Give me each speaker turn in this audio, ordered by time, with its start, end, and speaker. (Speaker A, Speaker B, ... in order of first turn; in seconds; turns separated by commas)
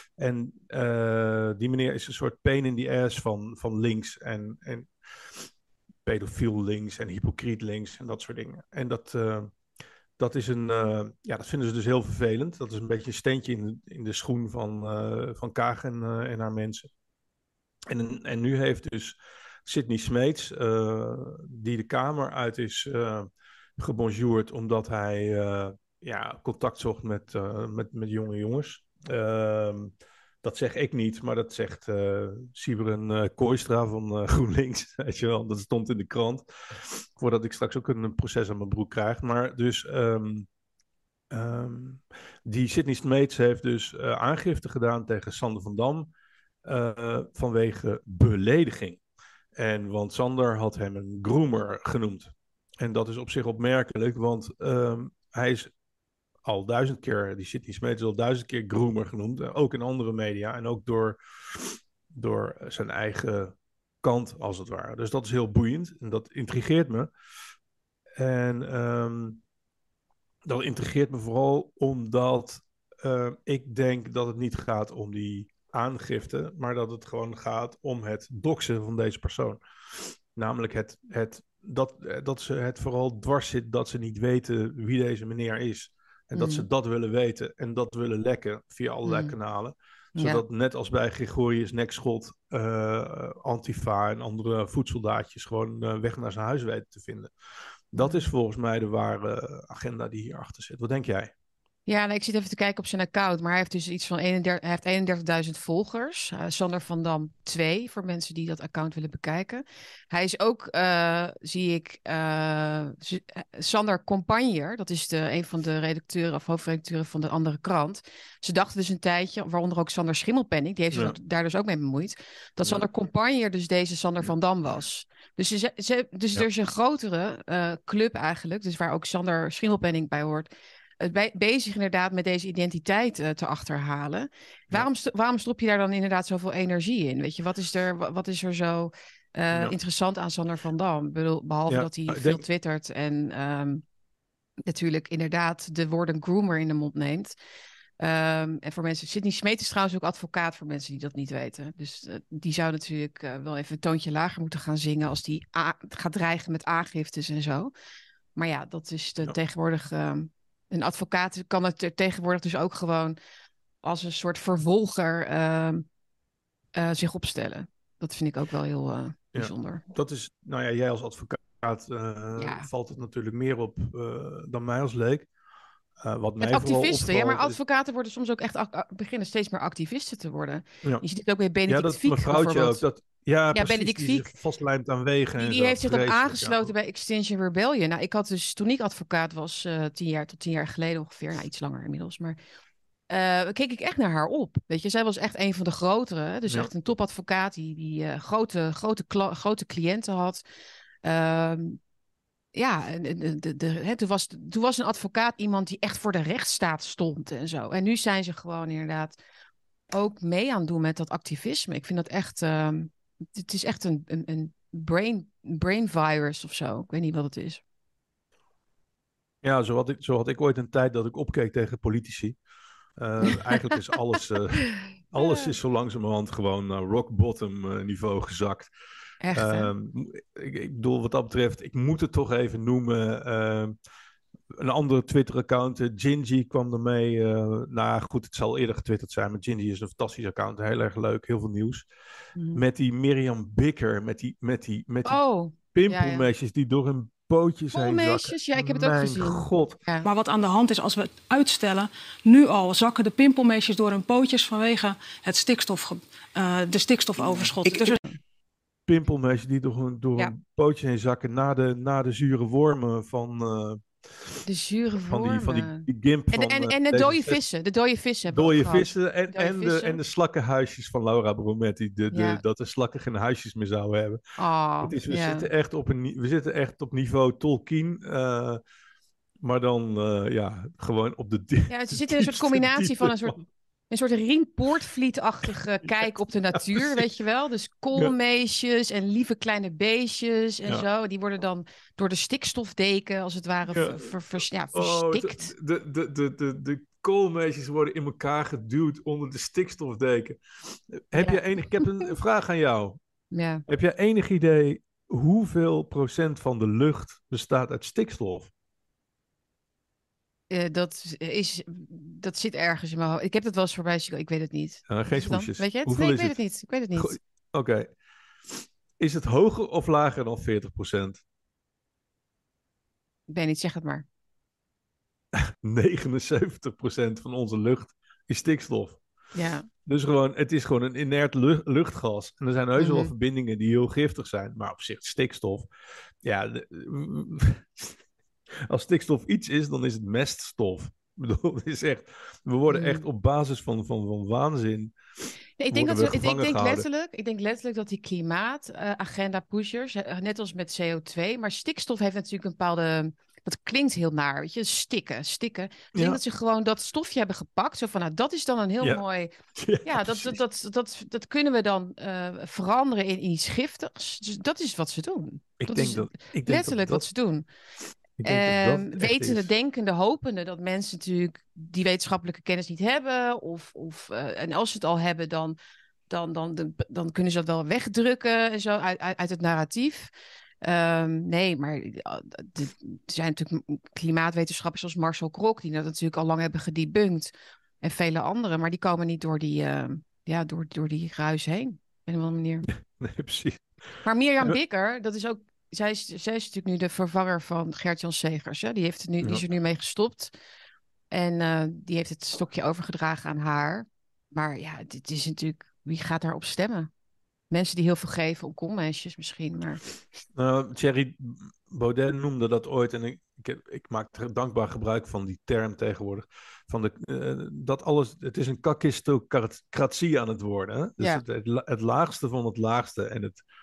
Speaker A: 0.2-5.5, Speaker A: 6.0-9.5, Speaker A: 10.2-16.9, Speaker A: 17.9-40.5, Speaker A: 41.3-46.1, Speaker A: 46.6-49.0, Speaker A: 49.5-55.7, Speaker A: 56.5-67.1, Speaker A: 68.2-69.4, Speaker A: 70.5-97.3, Speaker B: 86.4-86.7, Speaker B: 89.0-89.3, Speaker B: 90.2-90.4, Speaker A: 97.9-101.3, Speaker B: 98.0-98.3, Speaker B: 101.9-130.5, Speaker B: 131.0-143.8, Speaker A: 141.7-142.4, Speaker B: 144.7-147.3, Speaker B: 148.0-157.7, Speaker B: 158.4-163.2, Speaker B: 163.8-165.9, Speaker B: 166.8-169.8, Speaker A: 169.3-175.3, Speaker B: 172.4-172.7, Speaker A: 176.0-177.6, Speaker B: 176.4-182.8, Speaker A: 181.7-186.7, Speaker B: 183.5-184.3, Speaker B: 185.4-192.4, Speaker B: 193.1-200.4, Speaker B: 201.0-201.8, Speaker B: 202.5-209.2, Speaker B: 209.9-217.6, Speaker A: 219.4-222.4, Speaker A: 223.0-228.7, Speaker B: 223.2-223.6, Speaker B: 225.2-225.5, Speaker B: 229.2-229.7, Speaker A: 229.3-233.8, Speaker A: 234.6-241.9, Speaker B: 242.4-242.6, Speaker A: 242.6-245.2, Speaker B: 245.1-246.3, Speaker A: 245.7-249.8, Speaker B: 247.7-250.1, Speaker C: 250.0-258.0, Speaker A: 258.9-264.4, Speaker B: 264.5-270.0, Speaker A: 265.1-267.4, Speaker A: 268.3-274.2, Speaker B: 272.1-272.4, Speaker B: 274.4-275.5, Speaker A: 274.8-278.6, Speaker A: 279.4-283.5, Speaker B: 281.7-283.3, Speaker B: 283.9-295.5, Speaker A: 285.9-287.1, Speaker A: 293.7-303.0, Speaker B: 301.1-302.1, Speaker B: 303.3-303.6, Speaker A: 303.7-308.5, Speaker B: 310.5-317.2, Speaker A: 314.9-316.4, Speaker A: 317.0-317.9, Speaker A: 318.5-321.2, Speaker B: 323.3-324.1, Speaker A: 325.3-329.0, Speaker B: 329.3-329.7, Speaker A: 329.9-335.7, Speaker B: 332.8-333.1, Speaker A: 336.2-338.0, Speaker A: 338.5-345.0, Speaker B: 342.7-343.0, Speaker B: 345.6-367.5, Speaker A: 345.7-346.9, Speaker A: 355.9-356.2, Speaker A: 359.6-360.4, Speaker A: 365.6-367.1, Speaker A: 368.2-369.5, Speaker B: 368.2-375.6, Speaker B: 376.1-380.1, Speaker B: 380.6-387.3, Speaker B: 387.8-392.7, Speaker A: 392.7-393.6, Speaker B: 394.0-400.3, Speaker B: 401.1-406.9, Speaker B: 407.5-409.8, Speaker A: 410.4-423.4